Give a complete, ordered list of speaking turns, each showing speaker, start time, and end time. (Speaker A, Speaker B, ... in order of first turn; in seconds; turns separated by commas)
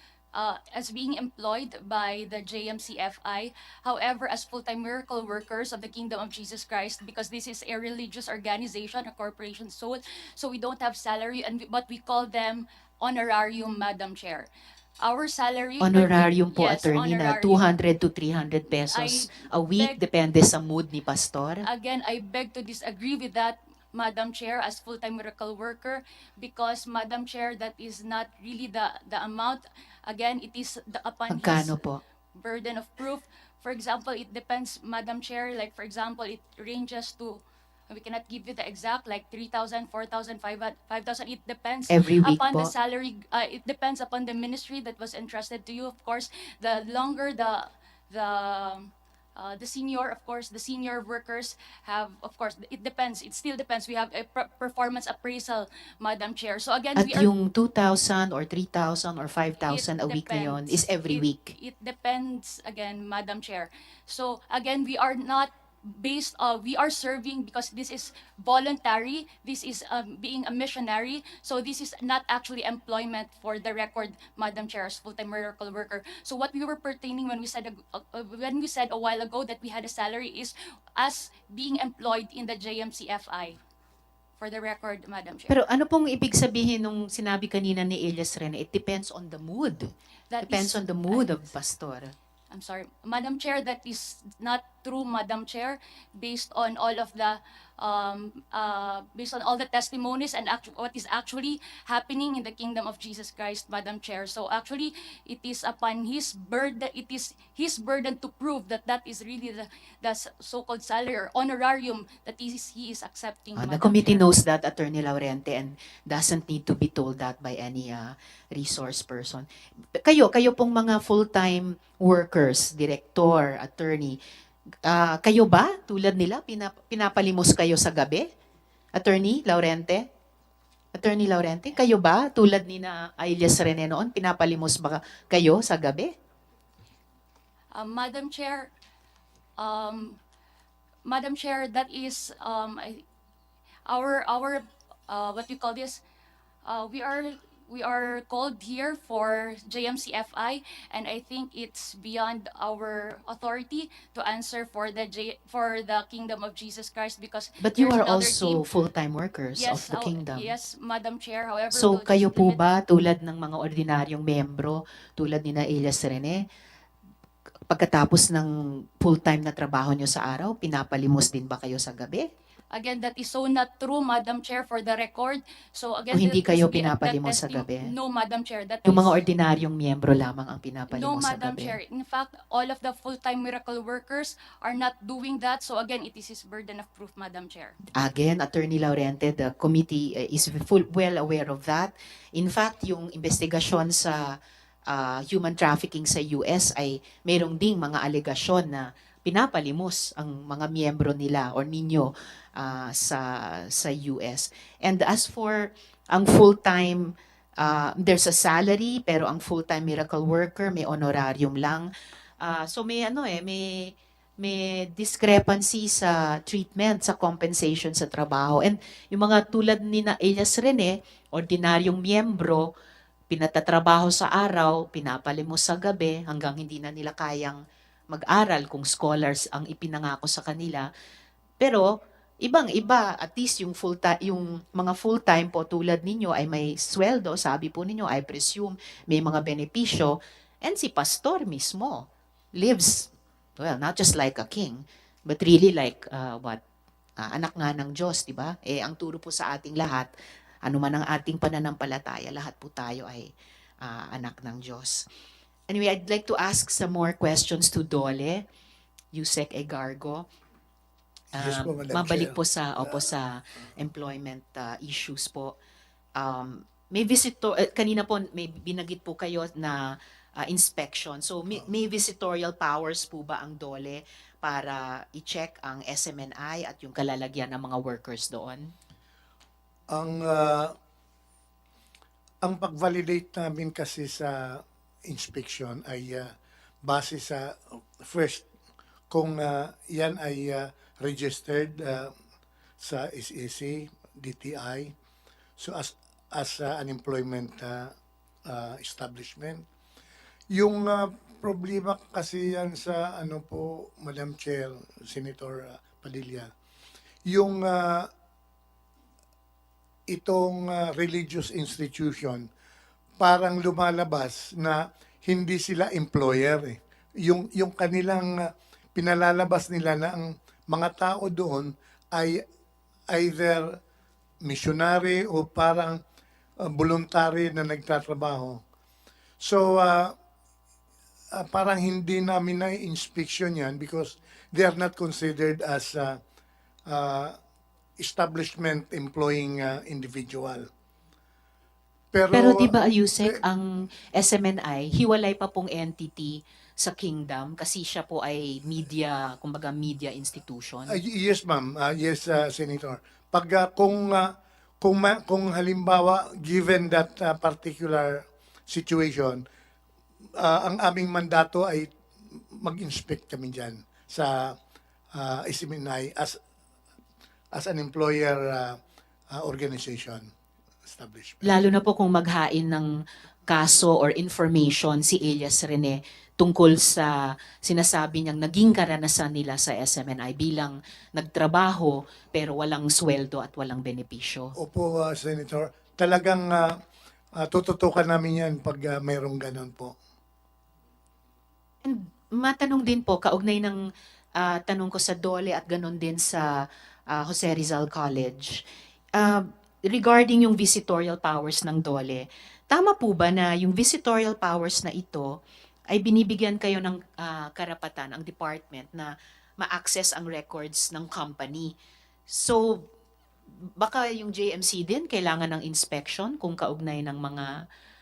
Speaker A: 0.3-14.5, Speaker A: 15.0-17.5, Speaker B: 15.8-21.7, Speaker A: 18.9-20.0, Speaker A: 21.7-31.6, Speaker B: 31.3-32.0, Speaker A: 32.4-37.4, Speaker A: 37.9-42.0, Speaker B: 41.9-42.7, Speaker A: 42.7-57.2, Speaker B: 57.0-61.6, Speaker A: 59.7-60.5, Speaker A: 61.1-83.6, Speaker A: 84.4-85.5, Speaker B: 85.5-92.1, Speaker A: 92.5-114.2, Speaker B: 113.6-124.2, Speaker B: 124.8-128.3, Speaker B: 128.9-130.1, Speaker B: 130.9-136.1, Speaker A: 137.7-138.7, Speaker A: 139.6-140.2, Speaker A: 141.1-143.0, Speaker A: 143.9-146.0, Speaker A: 146.6-158.4, Speaker B: 157.6-160.6, Speaker A: 159.6-162.4, Speaker B: 161.7-166.4, Speaker B: 167.7-172.3, Speaker A: 172.8-179.0, Speaker B: 176.1-177.9, Speaker B: 178.8-181.8, Speaker A: 181.0-187.7, Speaker B: 188.0-211.9, Speaker B: 212.4-222.7, Speaker B: 223.3-227.6, Speaker B: 228.1-230.9, Speaker B: 231.6-246.6, Speaker B: 247.2-250.1, Speaker B: 250.6-253.3, Speaker B: 253.8-255.1, Speaker B: 255.7-258.4, Speaker B: 259.1-260.3, Speaker C: 261.3-263.0, Speaker B: 261.4-265.6, Speaker B: 266.2-278.7, Speaker C: 279.9-280.7, Speaker C: 282.4-286.3, Speaker C: 286.8-288.4, Speaker C: 289.1-292.1, Speaker C: 292.8-294.9, Speaker C: 295.6-297.9, Speaker C: 298.5-299.6, Speaker C: 300.5-306.5, Speaker C: 307.2-308.1, Speaker C: 310.1-312.5, Speaker C: 313.2-322.4, Speaker C: 323.1-323.8, Speaker C: 324.4-326.0, Speaker C: 326.6-328.6, Speaker C: 329.4-330.1, Speaker C: 331.3-336.2, Speaker C: 336.9-337.4, Speaker C: 338.0-340.7, Speaker C: 342.1-343.4, Speaker B: 342.3-350.9, Speaker C: 350.9-359.4, Speaker C: 360.4-361.9, Speaker C: 362.6-364.6, Speaker C: 365.1-366.4, Speaker C: 367.5-368.8, Speaker C: 369.3-370.3, Speaker C: 370.9-371.6, Speaker B: 371.4-372.9, Speaker B: 373.5-384.5, Speaker C: 384.6-386.8, Speaker C: 387.4-389.9, Speaker B: 391.8-393.8, Speaker B: 394.4-398.6, Speaker B: 399.2-405.3, Speaker B: 405.9-411.7, Speaker B: 412.3-412.9, Speaker B: 413.8-417.5